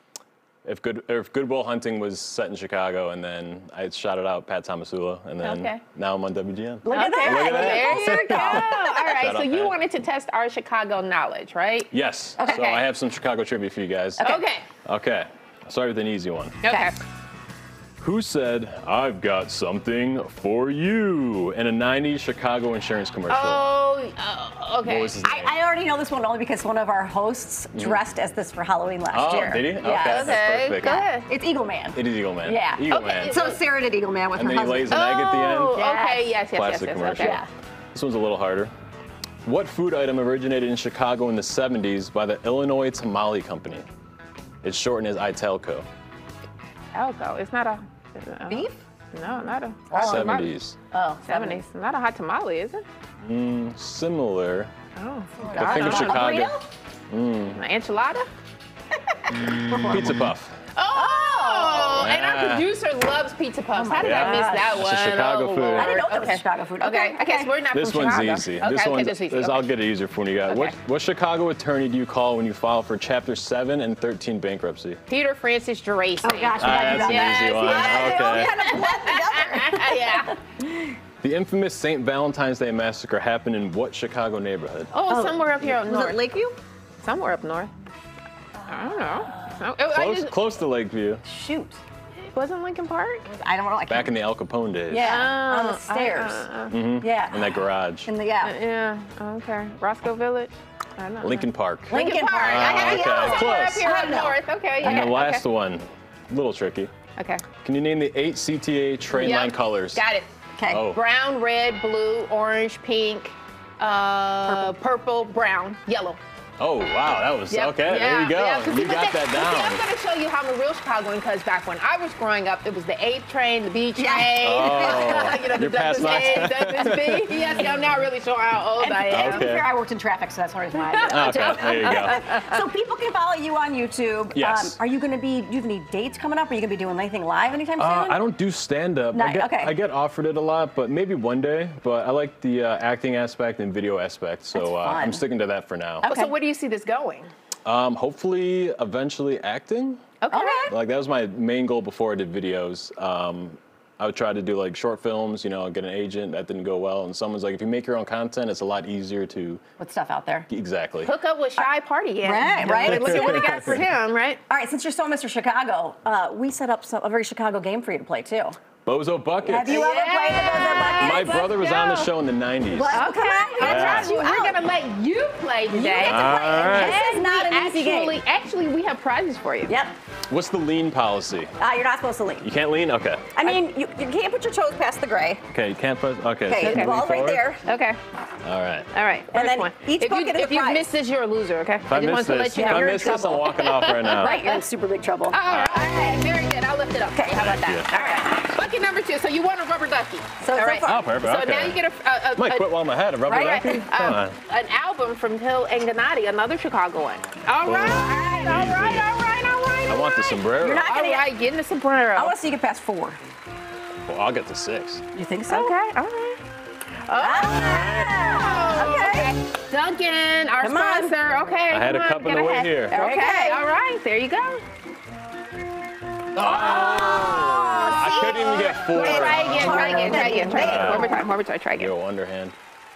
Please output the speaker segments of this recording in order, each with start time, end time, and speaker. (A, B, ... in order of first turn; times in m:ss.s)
0:00.6-0:09.8 A
0:05.4-0:05.8 B
0:06.8-0:09.1 C
0:06.9-0:11.9 B
0:11.9-0:16.6 A
0:12.4-0:12.8 C
0:14.2-0:14.5 C
0:14.2-0:14.6 B
0:16.6-0:17.0 B
0:16.6-0:16.9 C
0:18.0-0:23.7 A
0:23.3-0:25.2 B
0:24.8-0:25.5 A
0:25.2-0:30.4 C
0:27.7-0:28.0 A
0:29.1-0:31.1 A
0:29.9-0:31.3 B
0:31.3-0:35.0 C
0:31.9-0:33.4 A
0:32.9-0:33.6 B
0:34.3-0:35.9 A
0:34.9-0:37.4 B
0:35.7-0:36.3 C
0:36.5-0:37.4 A
0:37.2-0:37.5 C
0:37.9-0:38.7 A
0:39.4-0:43.8 A
0:44.6-0:45.8 A
0:46.9-0:50.5 B
0:48.5-0:48.8 C
0:49.9-0:51.6 C
0:49.9-0:50.8 A
0:51.2-0:52.8 B
0:53.2-0:54.7 A
0:55.0-0:56.3 B
0:55.4-0:56.7 C
0:55.5-0:56.6 A
0:57.1-0:57.6 A
0:57.6-0:58.3 B
0:59.4-1:00.2 C
0:59.8-1:00.6 A
1:00.8-1:09.7 B
1:00.9-1:02.0 C
1:01.9-1:02.7 A
1:03.7-1:04.9 C
1:04.0-1:06.0 A
1:05.7-1:07.5 C
1:07.7-1:15.0 A
1:10.5-1:10.8 B
1:15.1-1:20.4 B
1:16.2-1:21.0 C
1:16.6-1:18.6 A
1:21.2-1:24.9 A
1:24.9-1:26.2 B
1:25.1-1:26.6 C
1:27.0-1:27.7 B
1:28.6-1:29.6 C
1:28.7-1:30.4 B
1:29.9-1:31.2 A
1:31.2-1:31.8 C
1:32.3-1:33.3 B
1:33.3-1:34.2 C
1:33.9-1:35.2 A
1:34.9-1:38.5 C
1:35.0-1:36.7 B
1:36.7-1:38.1 A
1:38.4-1:45.4 B
1:41.2-1:43.9 A
1:41.9-1:45.2 C
1:44.8-1:46.9 A
1:47.2-1:47.4 B
1:47.6-1:50.0 A
1:49.1-1:56.2 B
1:50.6-1:50.9 C
1:50.7-1:51.0 A
1:54.4-1:54.8 C
1:56.6-1:59.8 A
1:57.5-2:09.5 B
2:04.0-2:06.5 C
2:04.4-2:07.5 A
2:08.8-2:18.2 C
2:09.1-2:09.7 A
2:10.8-2:12.6 B
2:11.1-2:12.2 A
2:14.3-2:14.8 A
2:17.8-2:26.1 A
2:19.1-2:19.8 C
2:24.5-2:25.2 C
2:26.0-2:26.3 C
2:26.0-2:27.3 B
2:27.6-2:30.1 A
2:30.2-2:30.7 B
2:30.3-2:30.7 C
2:30.7-2:39.6 A
2:39.8-2:40.5 C
2:40.5-2:41.1 A
2:41.0-2:44.4 B
2:42.2-2:43.7 C
2:42.6-2:43.8 A
2:44.5-2:48.6 C
2:48.8-2:49.9 A
2:49.4-2:52.0 C
2:49.6-2:52.0 B
2:51.0-2:53.0 A
2:52.7-2:54.6 C
2:52.9-2:59.8 B
2:53.6-2:54.1 A
2:55.7-2:58.2 C
2:56.0-2:57.0 A
2:59.6-2:59.9 C
3:00.3-3:01.5 A
3:01.6-3:02.5 C
3:02.4-3:03.5 A
3:03.4-3:05.4 C
3:05.5-3:07.4 A
3:06.4-3:07.6 C
3:06.6-3:06.9 B
3:07.6-3:08.0 B
3:08.4-3:08.9 A
3:08.9-3:14.6 B
3:09.3-3:10.9 C
3:11.9-3:14.4 A
3:12.5-3:16.2 C
3:15.3-3:29.0 B
3:15.5-3:15.9 A
3:17.1-3:18.5 C
3:17.4-3:17.9 A
3:20.4-3:21.1 C
3:20.8-3:21.8 A
3:22.4-3:24.4 A
3:23.3-3:23.8 C
3:27.6-3:29.1 A
3:27.8-3:31.3 C
3:29.9-3:30.9 A
3:30.8-3:32.4 B
3:32.1-3:33.2 C
3:34.0-3:35.0 A
3:35.1-3:35.7 C
3:35.5-3:36.4 B
3:37.1-3:44.6 B
3:37.1-3:39.4 C
3:37.4-3:38.2 A
3:40.6-3:41.1 C
3:41.7-3:43.0 A
3:42.9-3:43.6 C
3:46.3-3:51.2 A
3:46.4-3:51.3 C
3:48.5-3:51.9 B
3:51.8-3:52.6 A